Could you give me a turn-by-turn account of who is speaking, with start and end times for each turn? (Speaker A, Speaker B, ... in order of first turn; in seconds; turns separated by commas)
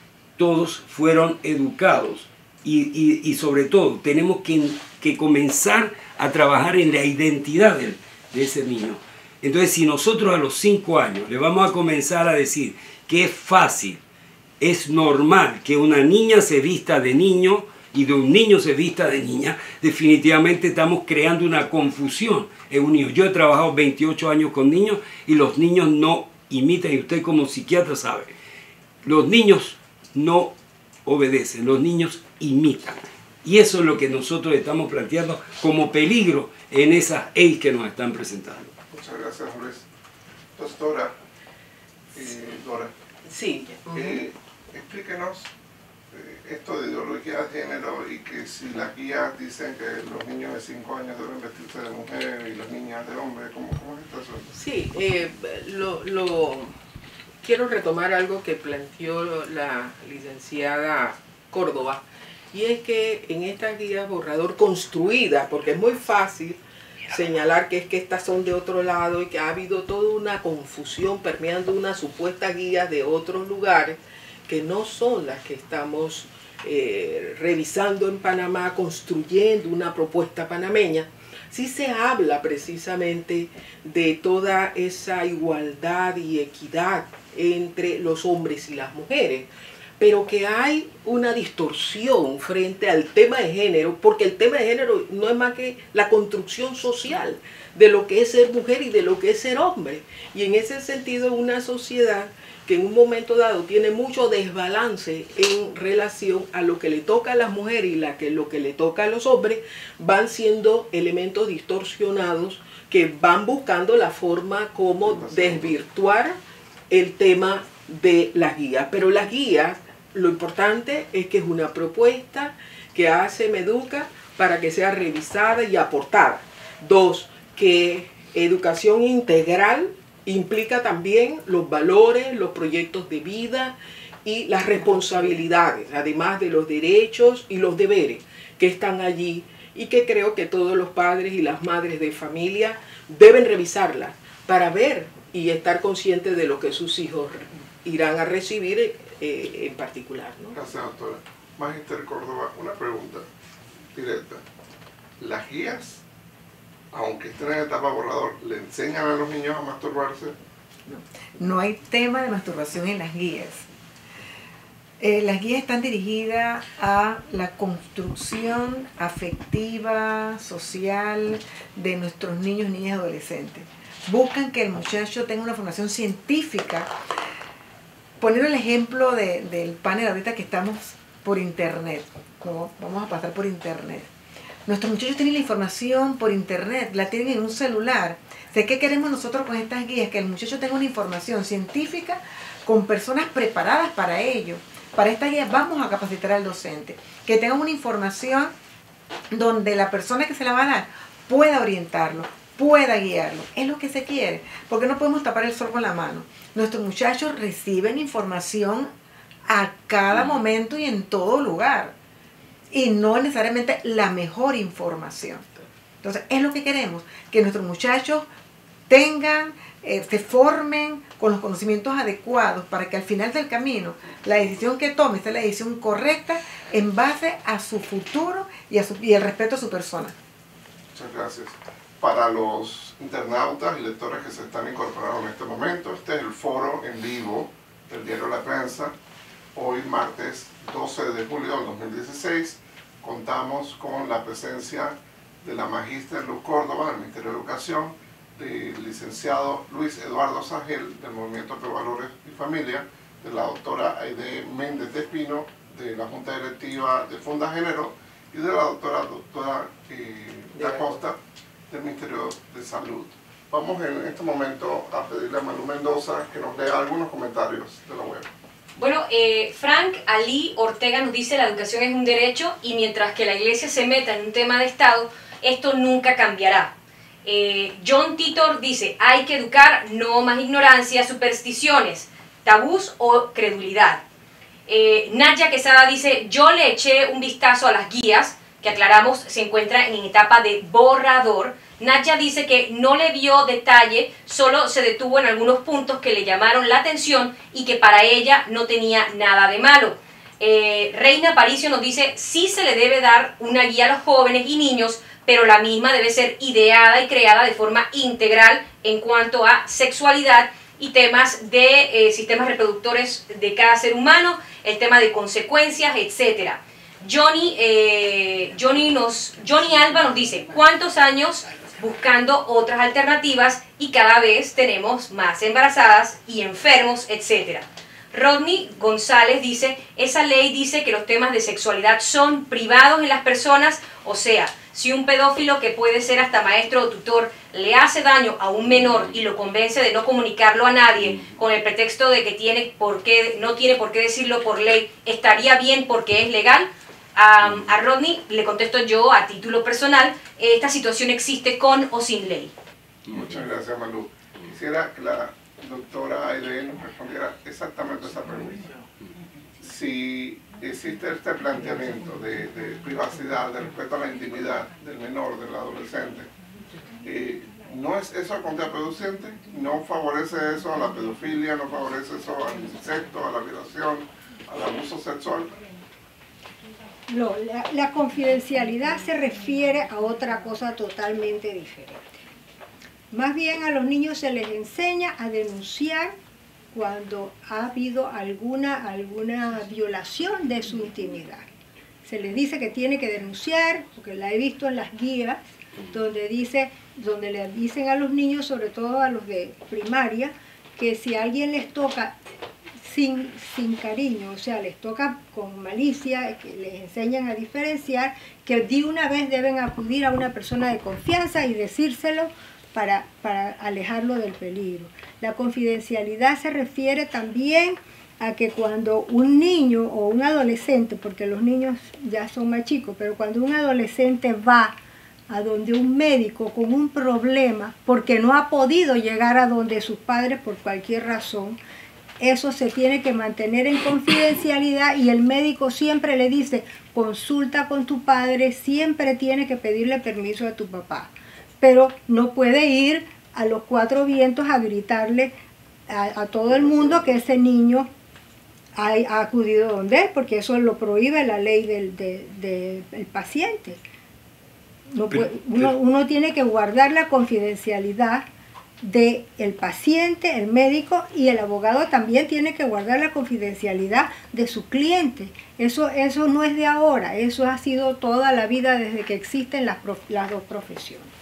Speaker A: 0.4-14.0, Speaker A: 14.6-28.3, Speaker A: 29.0-30.5, Speaker A: 31.0-38.7, Speaker B: 38.9-39.9, Speaker B: 40.6-41.1, Speaker B: 42.1-42.9, Speaker C: 43.3-44.2, Speaker B: 43.9-45.5, Speaker B: 46.1-54.5, Speaker C: 54.5-56.7, Speaker C: 57.4-116.4, Speaker B: 115.0-115.7, Speaker C: 116.9-150.6, Speaker B: 150.5-153.3, Speaker B: 153.9-154.4, Speaker B: 155.2-156.0, Speaker B: 156.9-160.3, Speaker D: 160.9-163.6, Speaker D: 165.0-176.9, Speaker D: 178.2-184.1, Speaker D: 184.7-198.5, Speaker D: 199.3-208.9, Speaker D: 209.5-211.9, Speaker D: 212.7-215.4, Speaker D: 216.0-218.3, Speaker D: 218.9-230.2, Speaker B: 230.9-238.9, Speaker B: 239.5-261.2, Speaker C: 260.5-261.0, Speaker B: 261.7-268.3, Speaker E: 268.8-276.7, Speaker E: 277.2-284.0, Speaker E: 284.7-352.5, Speaker B: 353.1-358.7, Speaker B: 359.6-366.3, Speaker B: 367.0-375.5, Speaker F: 377.1-382.2, Speaker F: 383.1-386.1, Speaker F: 386.7-391.5, Speaker F: 392.0-402.1, Speaker F: 402.8-424.8, Speaker F: 425.3-431.6, Speaker F: 432.2-445.3, Speaker F: 445.9-447.9, Speaker F: 448.8-453.8, Speaker F: 454.9-458.2, Speaker A: 455.1-455.7, Speaker F: 458.8-471.1